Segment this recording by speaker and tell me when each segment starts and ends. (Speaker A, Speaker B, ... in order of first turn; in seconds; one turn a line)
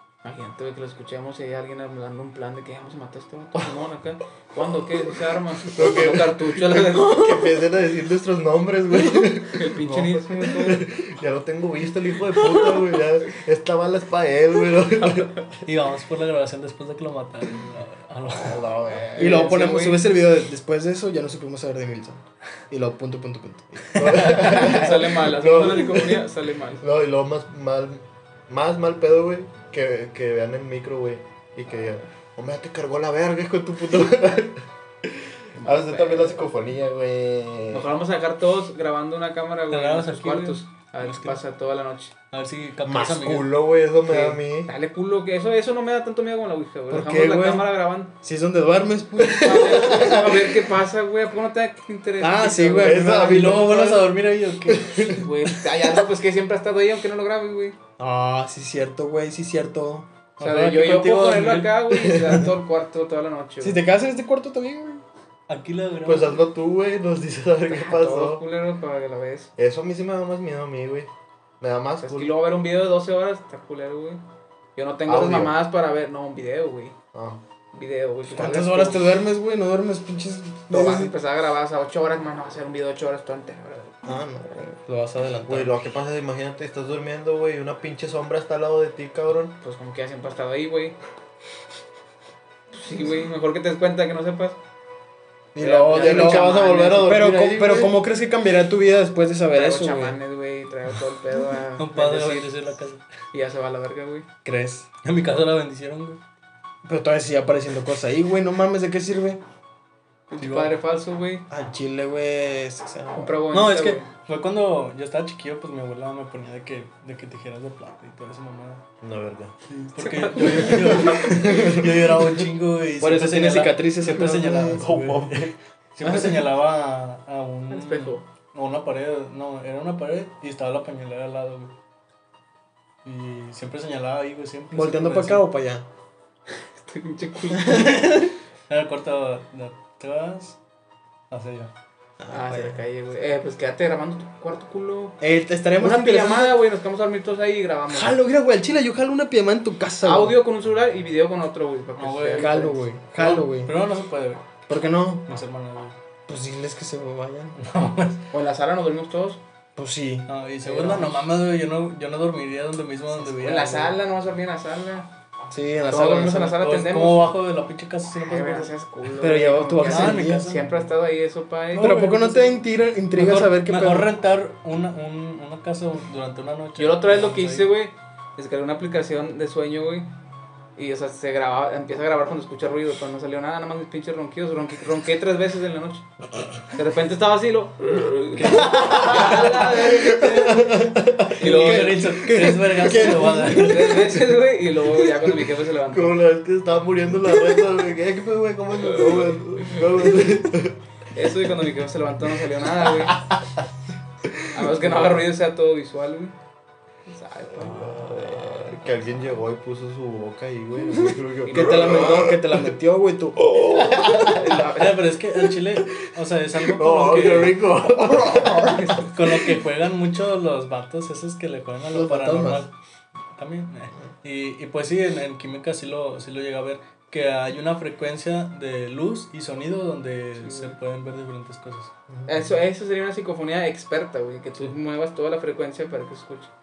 Speaker A: 0.2-7.6
Speaker B: 5.6-15.6
Speaker A: 9.5-10.9
Speaker C: 15.7-18.9
Speaker B: 18.4-19.3
Speaker A: 18.9-20.0
Speaker D: 19.2-24.2
Speaker B: 23.9-26.3
Speaker C: 23.9-25.0
Speaker A: 24.4-26.8
Speaker B: 26.8-37.9
Speaker A: 35.6-36.4
Speaker A: 37.7-42.1
Speaker C: 39.7-41.4
Speaker C: 42.3-43.5
Speaker B: 42.8-44.7
Speaker A: 44.1-48.1
Speaker D: 46.9-47.7
Speaker D: 48.2-50.2
Speaker B: 49.2-50.6
Speaker A: 49.3-53.1
Speaker D: 52.2-54.0
Speaker B: 52.8-54.0
Speaker C: 53.1-55.2
Speaker B: 54.7-55.2
Speaker A: 55.1-57.8
Speaker D: 58.0-60.1
Speaker C: 60.4-61.8
Speaker A: 60.4-63.8
Speaker B: 61.9-62.4
Speaker D: 63.6-65.0
Speaker C: 65.5-66.5
Speaker B: 66.0-68.4
Speaker A: 67.7-69.5
Speaker B: 69.6-72.3
Speaker A: 72.0-74.2
Speaker A: 74.8-77.0
Speaker B: 75.1-75.5
Speaker B: 77.1-77.4
Speaker A: 77.7-79.0
Speaker D: 78.3-81.1
Speaker A: 80.7-84.0
Speaker D: 84.0-85.7
Speaker B: 85.5-89.6
Speaker A: 89.6-91.0
Speaker A: 92.7-94.6
Speaker D: 95.5-100.2
Speaker A: 95.6-97.2
Speaker B: 95.9-98.0
Speaker A: 99.5-102.5
Speaker C: 101.8-103.0
Speaker A: 103.3-104.3
Speaker D: 104.5-104.9
Speaker C: 105.0-106.2
Speaker D: 106.8-109.4
Speaker A: 110.3-111.5
Speaker C: 110.4-110.8
Speaker D: 111.5-113.4
Speaker A: 113.2-114.1
Speaker C: 113.5-118.8
Speaker B: 119.0-119.5
Speaker C: 119.7-131.8
Speaker A: 120.0-121.8
Speaker B: 121.5-121.8
Speaker D: 123.0-124.8
Speaker B: 124.8-125.5
Speaker D: 126.0-126.5
Speaker A: 127.7-128.2
Speaker C: 133.0-135.4
Speaker D: 134.7-135.9
Speaker A: 136.6-138.3
Speaker C: 137.7-140.6
Speaker C: 141.3-141.7
Speaker D: 142.2-142.8
Speaker A: 142.3-145.2
Speaker D: 145.2-146.6
Speaker A: 145.8-148.2
Speaker D: 147.9-150.4
Speaker A: 150.0-152.8
Speaker C: 152.0-152.6
Speaker D: 152.4-153.8
Speaker C: 153.2-154.4
Speaker D: 154.7-155.3
Speaker C: 155.3-156.0
Speaker D: 156.3-157.6
Speaker C: 157.6-158.3
Speaker A: 158.3-159.4
Speaker D: 159.8-160.3
Speaker C: 160.3-164.0
Speaker A: 160.6-161.3
Speaker A: 163.2-165.1
Speaker D: 165.5-166.6
Speaker A: 165.9-167.3
Speaker C: 166.6-168.7
Speaker A: 168.2-171.9
Speaker D: 169.2-170.5
Speaker C: 169.8-170.7
Speaker C: 171.8-172.6
Speaker D: 171.8-174.1
Speaker C: 173.2-177.7
Speaker A: 176.8-180.1
Speaker A: 180.8-186.1
Speaker A: 186.7-190.6
Speaker C: 188.3-189.7
Speaker B: 188.9-191.4
Speaker D: 190.0-194.2
Speaker C: 191.3-194.2
Speaker A: 191.4-192.1
Speaker A: 192.9-196.2
Speaker B: 195.9-200.8
Speaker A: 201.1-203.2
Speaker B: 203.0-203.7
Speaker B: 204.3-204.9
Speaker A: 204.5-206.4
Speaker A: 207.1-208.3
Speaker B: 207.6-212.7
Speaker A: 211.4-212.2
Speaker D: 211.5-214.5
Speaker B: 213.6-214.5
Speaker A: 213.9-215.0
Speaker C: 214.5-217.7
Speaker B: 216.7-219.1
Speaker D: 217.9-218.6
Speaker A: 218.6-219.1
Speaker C: 219.0-222.7
Speaker D: 221.9-222.7
Speaker C: 223.3-231.9
Speaker A: 230.4-230.8
Speaker D: 232.1-232.5
Speaker A: 232.3-236.5